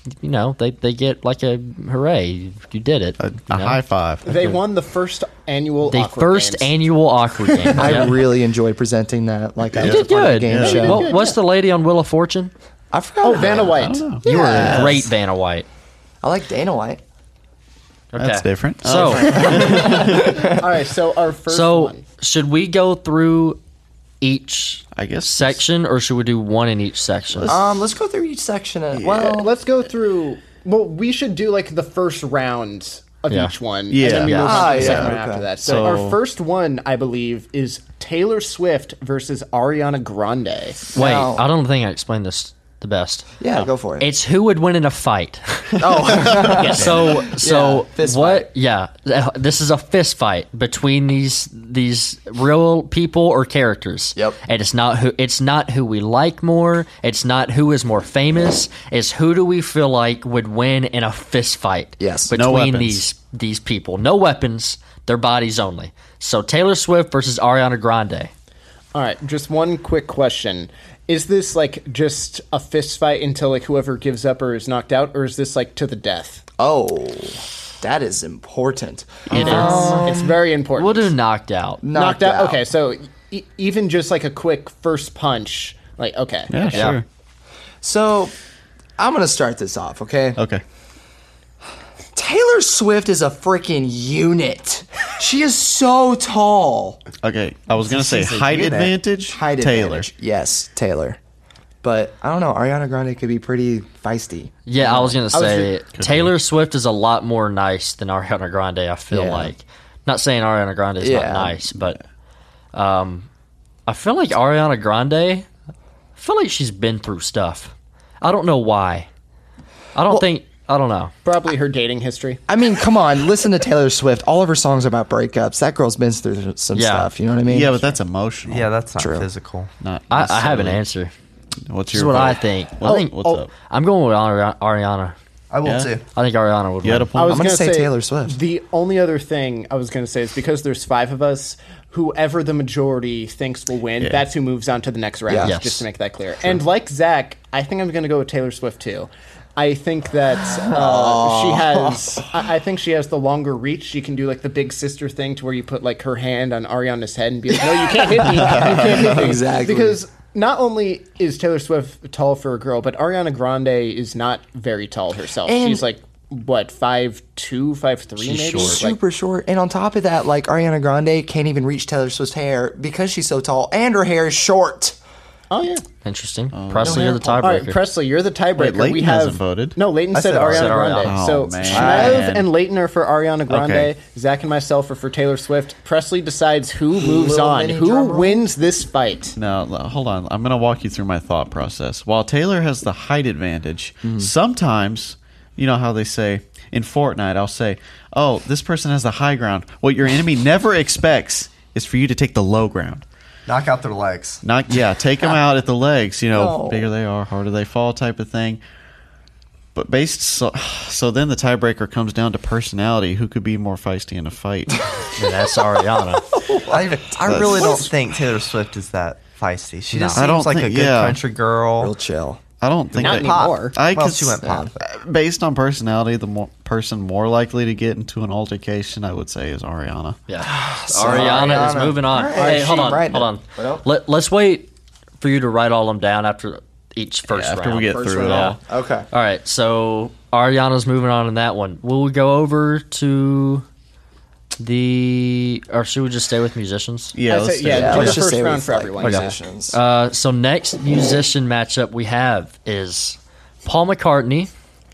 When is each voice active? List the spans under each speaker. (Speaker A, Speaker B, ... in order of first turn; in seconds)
Speaker A: 0.2-3.8, 5.9-8.2, 9.8-12.5, 14.2-15.7, 18.1-19.4, 21.5-23.6, 24.2-27.6, 34.2-34.6, 40.9-68.3, 79.3-80.1, 80.7-81.8, 86.7-87.0, 104.7-112.0, 112.7-113.3, 113.9-115.5, 116.2-119.1, 119.9-121.1, 126.7-127.1, 130.1-131.1, 131.9-135.2, 136.1-137.1, 145.4-145.9, 168.2-168.8, 176.0-177.8, 180.5-181.2, 215.2-216.3, 219.9-220.2, 230.3-238.6, 239.1-243.6, 244.6-247.2, 249.0-254.5
Speaker B: 3.2-4.4, 9.8-11.0, 13.7-15.1, 18.2-20.5, 24.9-25.6, 27.3-27.6, 28.9-29.3, 33.9-36.2, 46.8-47.0, 62.3-63.0, 79.3-79.8, 86.5-87.0, 90.4-90.6, 97.2-100.1, 105.9-106.3, 127.4-128.7, 129.8-130.8, 131.7-133.5, 135.6-135.9, 136.8-137.4, 158.4-159.2, 176.5-177.1, 178.6-179.8, 181.0-182.5, 183.5-183.9, 189.4-203.0, 204.4-208.6, 209.7-214.8, 217.3-217.8, 220.1-221.2, 222.6-230.2, 237.3-238.6, 247.1-248.2
Speaker C: 4.2-6.7, 10.6-11.4, 13.2-14.9, 19.4-22.0, 29.2-40.9, 46.6-46.9, 68.9-76.4, 79.3-81.1, 81.9-86.9, 105.3-105.7, 121.2-122.4, 132.8-133.4, 137.2-169.0, 175.5-175.8, 177.4-189.4, 222.9-223.8, 232.3-233.0, 247.3-249.4
Speaker D: 7.8-11.1, 12.9-14.8, 16.2-17.0, 19.2-20.6, 27.5-29.5, 34.4-36.0, 40.9-41.4, 43.4-44.1, 45.8-48.5, 62.0-62.3, 76.6-80.4, 81.8-82.6, 87.8-88.3, 89.0-90.4, 92.1-97.0, 99.3-101.2, 101.8-105.1, 109.1-109.5, 111.0-111.6, 122.5-128.0, 128.9-129.3, 137.3-138.4, 145.3-145.6, 150.5-152.4, 157.6-160.0, 165.4-165.8, 168.5-175.0, 176.8-177.5, 181.7-182.3, 186.9-188.4, 194.0-194.3, 206.3-206.9, 216.3-217.9, 221.8-222.4, 224.4-224.7, 230.4-233.9, 237.9-239.1, 247.7-249.8
Speaker E: 97.8-99.0, 128.4-129.7, 135.5-136.1, 180.1-180.9, 203.5-204.4, 216.5-221.9, 222.9-224.9